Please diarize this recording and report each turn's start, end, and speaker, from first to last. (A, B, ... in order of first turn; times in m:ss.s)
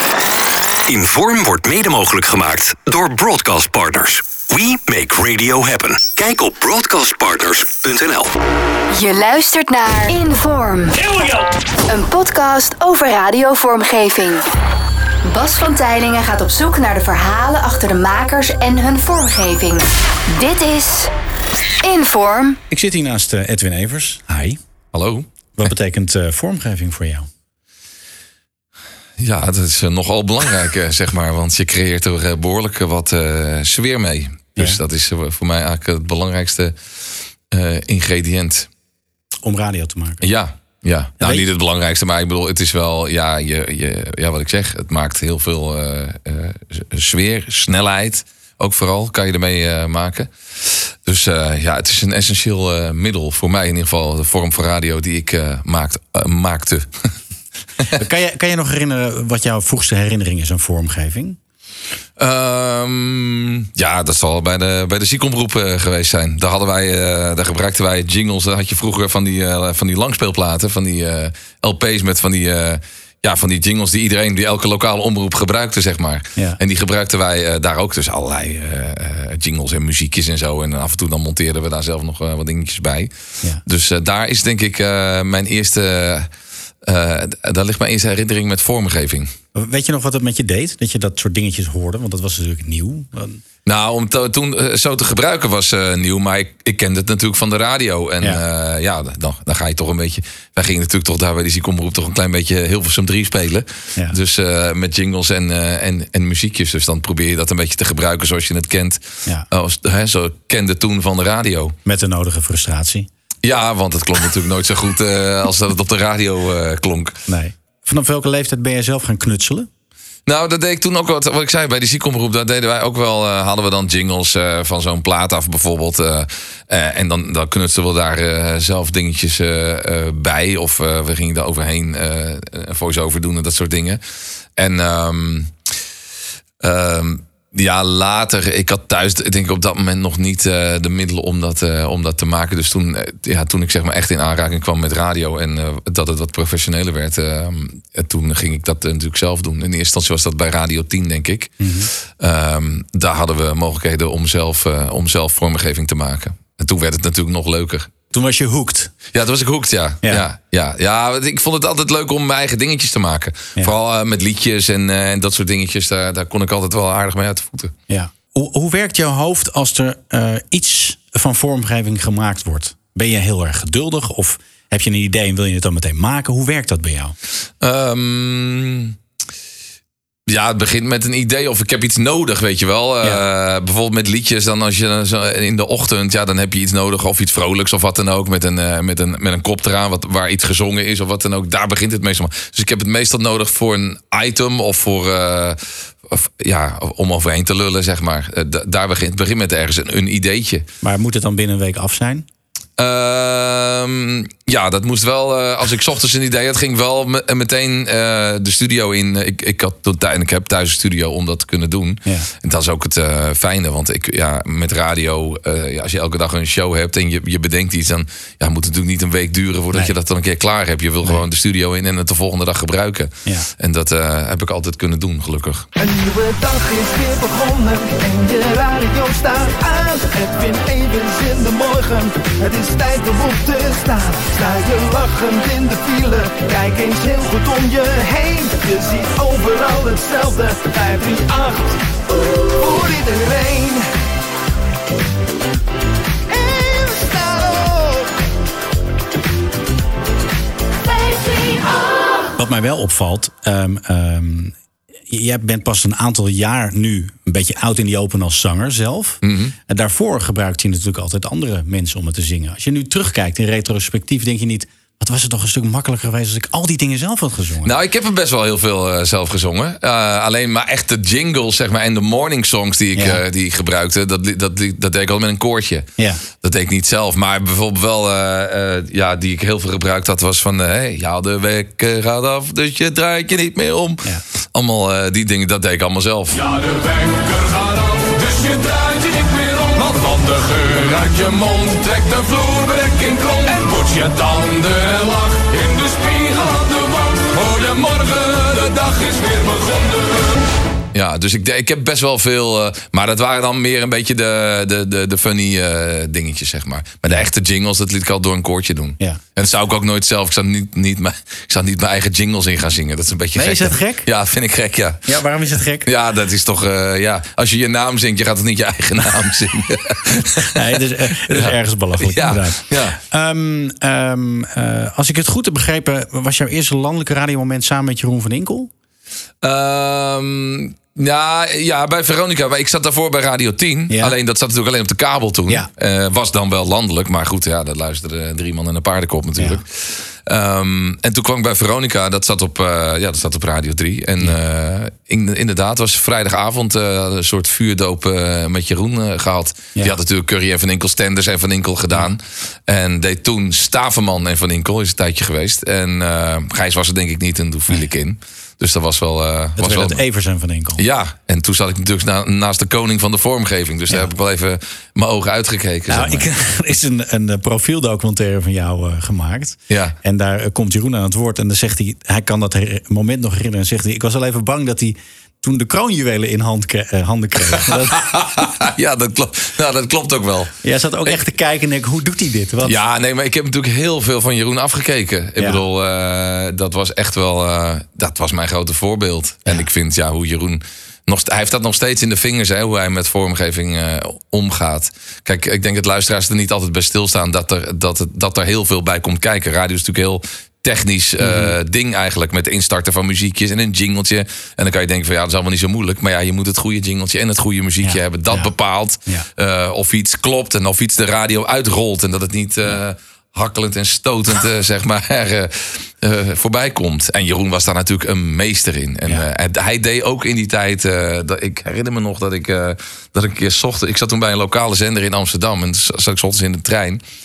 0:00.9-0:08.4 A
0:08.9-0:11.0 B
0:11.1-0:11.4 C
0:11.9-0:14.5 B
0:15.2-0:21.1 B
0:21.8-0:22.6 B
0:22.7-0:24.6 D
0:24.9-0:25.3 E
0:25.6-0:27.3 D
0:29.2-0:36.8 E
0:37.5-0:38.7 E
0:39.4-0:40.2 D
0:40.2-0:56.9 E
0:41.2-0:41.5 D
0:57.9-1:01.4 D
1:02.2-1:23.1 E
1:23.6-1:26.3 E
1:26.8-1:29.3 E
1:29.6-1:33.4 D
1:33.7-1:51.8 E
1:51.8-1:53.1 D
1:53.4-1:57.2 E
1:57.3-1:59.7 D
2:00.3-2:14.0 E
2:14.6-2:15.5 E
2:16.6-2:37.9 E
2:31.6-2:31.9 D
2:38.1-2:38.9 D
2:39.1-2:47.7 E
2:47.9-2:57.2 D
2:57.6-2:59.0 E
3:00.3-3:20.7 E
3:20.8-3:22.3 D
3:22.8-3:45.7 E
3:45.8-4:01.8 F
4:02.4-4:03.9 F
4:06.3-4:08.1 F
4:12.4-4:14.6 D
4:15.1-4:27.7 D
4:19.2-4:19.6 E
4:27.6-4:35.9 E
4:33.0-4:33.2 D
4:36.4-4:46.4 E
4:46.5-5:00.4 C
5:00.9-5:15.1 E
5:13.4-5:14.1 D
5:15.1-5:15.9 D
5:15.8-5:20.6 E
5:20.5-5:28.7 D
5:21.3-5:23.0 E
5:29.4-6:00.0 E
5:33.9-5:34.2 D
5:59.6-6:00.8 D
6:00.8-6:06.3 E
6:05.9-6:18.2 D
6:09.7-6:10.0 E
6:17.6-6:20.5 E
6:20.6-6:22.8 D
6:22.6-7:07.0 E
6:41.2-6:41.6 D
6:47.8-6:48.5 D